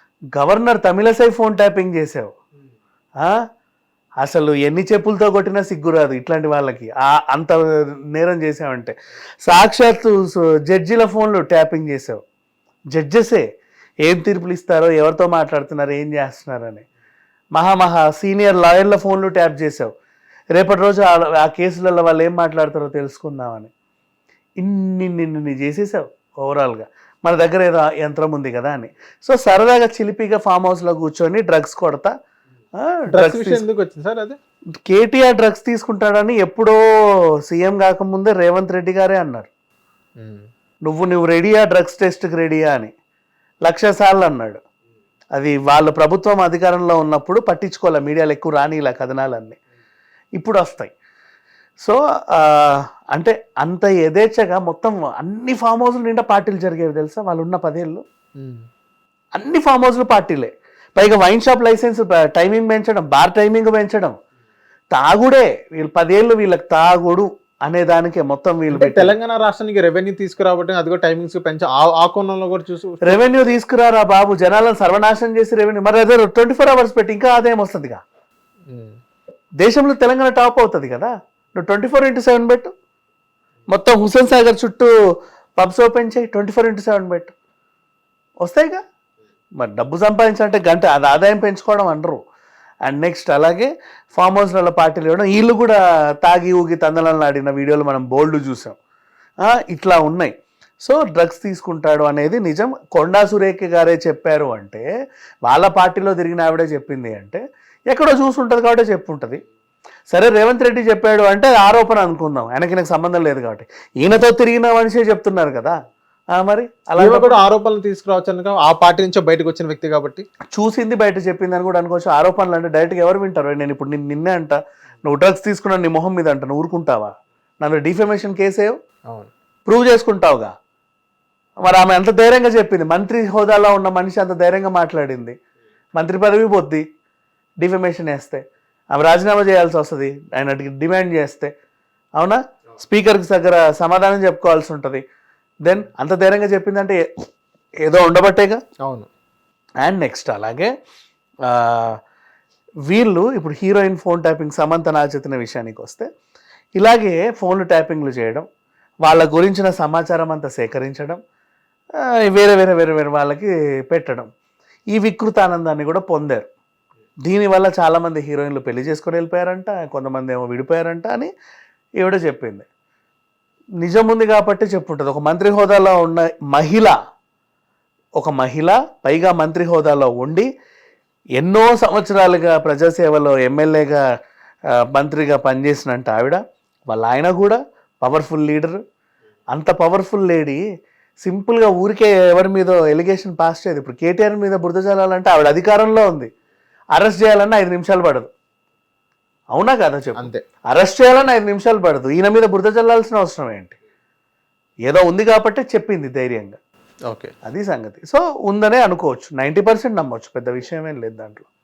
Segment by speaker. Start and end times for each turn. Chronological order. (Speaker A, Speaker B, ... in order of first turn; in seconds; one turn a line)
Speaker A: 0.3-2.3
Speaker A: 4.2-7.6
Speaker A: 8.1-12.2
Speaker A: 12.9-13.4
Speaker A: 14.0-16.8
Speaker A: 17.6-19.9
Speaker A: 20.6-23.7
Speaker A: 24.6-32.1
Speaker A: 32.8-33.6
Speaker B: 33.1-34.4
Speaker A: 34.8-36.8
Speaker A: 37.5-39.5
Speaker B: 40.2-40.5
Speaker A: 40.9-42.9
Speaker A: 43.6-44.6
Speaker A: 45.4-49.6
Speaker A: 50.4-50.9
Speaker A: 51.8-58.0
Speaker B: 58.4-58.6
Speaker A: 59.4-64.1
Speaker A: 64.9-69.1
Speaker B: 68.7-73.3
Speaker A: 73.0-78.0
Speaker B: 78.7-78.9
Speaker A: 79.6-82.7
Speaker A: 83.7-84.9
Speaker A: 85.6-87.3
Speaker A: 88.4-88.8
Speaker A: 89.6-92.2
Speaker A: 92.8-98.8
Speaker A: 99.5-104.8
Speaker A: 105.5-109.4
Speaker A: 110.1-115.7
Speaker A: 116.3-117.4
Speaker B: 117.0-120.2
Speaker A: 120.5-128.7
Speaker A: 129.7-130.5
Speaker A: 131.6-135.3
Speaker A: 136.0-136.8
Speaker A: 137.6-141.5
Speaker A: 142.2-145.0
Speaker A: 145.6-147.0
Speaker A: 147.8-148.6
Speaker A: 149.8-150.7
Speaker A: 151.4-152.0
Speaker A: 152.9-156.1
Speaker A: 156.8-158.4
Speaker A: 159.1-161.2
Speaker A: 162.2-164.3
Speaker A: 164.9-166.4
Speaker A: 167.2-171.3
Speaker A: 172.0-172.7
Speaker A: 173.8-176.9
Speaker A: 178.2-180.5
Speaker A: 181.4-184.0
Speaker A: 184.9-188.8
Speaker A: 189.5-190.6
Speaker A: 191.2-196.3
Speaker A: 196.9-198.3
Speaker A: 199.5-203.7
Speaker B: 200.2-200.4
Speaker A: 204.9-206.6
Speaker A: 207.4-211.5